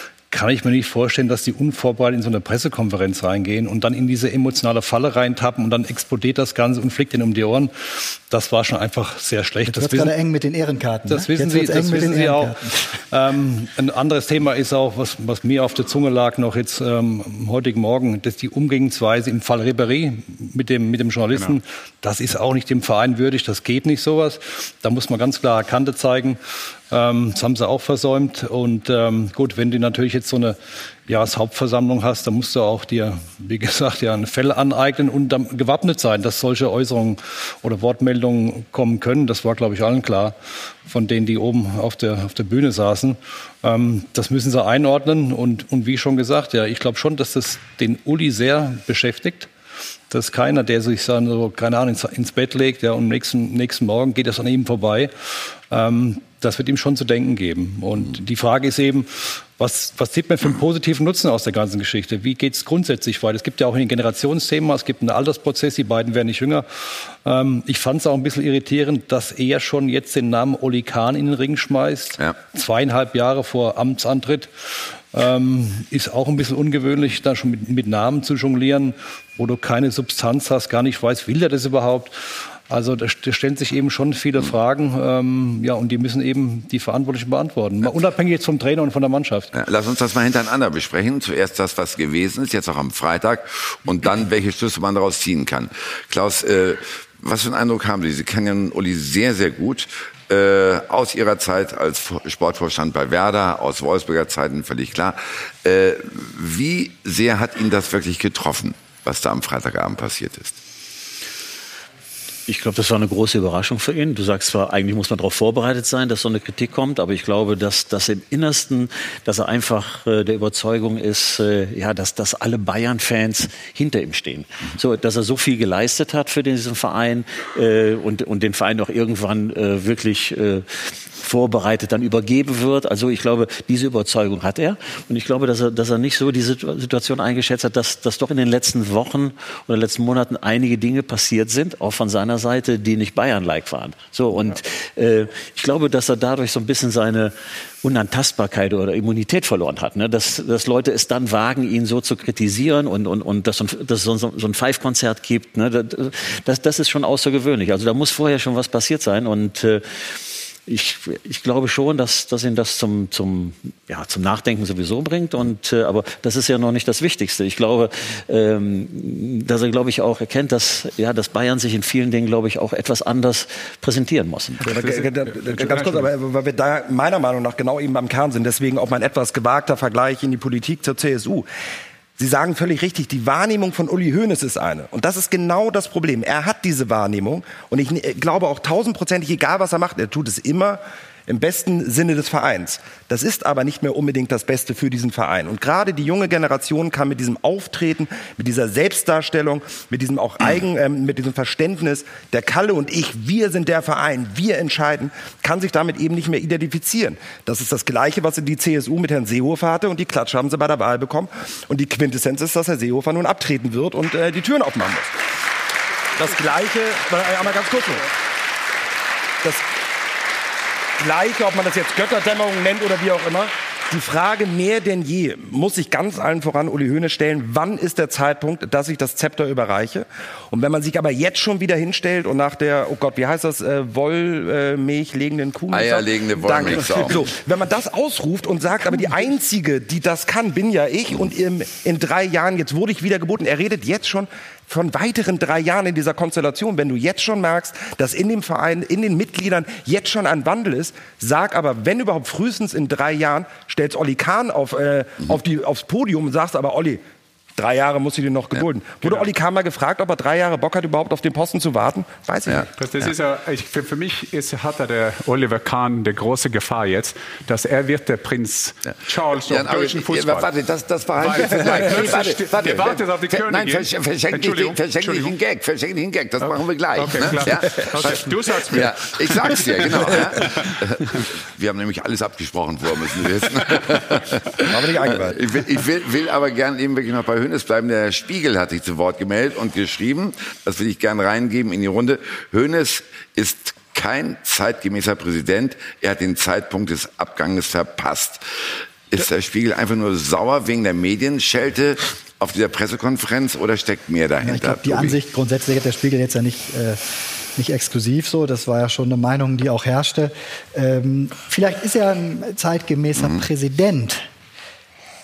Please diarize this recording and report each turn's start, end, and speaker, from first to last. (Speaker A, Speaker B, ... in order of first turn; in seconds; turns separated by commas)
Speaker A: 0.3-10.1, Speaker B: 9.7-12.7, Speaker A: 11.1-49.5, Speaker A: 50.1-89.5, Speaker C: 89.5-110.6, Speaker D: 112.5-159.8, Speaker D: 160.7-174.6, Speaker E: 174.6-181.4, Speaker F: 174.7-176.0, Speaker E: 182.2-215.2, Speaker E: 216.2-218.1, Speaker E: 221.0-257.0, Speaker C: 235.7-237.3, Speaker E: 257.6-262.7, Speaker F: 259.0-259.3, Speaker C: 262.5-263.1, Speaker F: 262.8-270.5, Speaker C: 269.4-298.4, Speaker F: 271.2-275.4, Speaker F: 276.4-280.7, Speaker E: 284.7-285.4, Speaker C: 299.1-305.2, Speaker B: 304.4-307.0, Speaker B: 307.6-314.3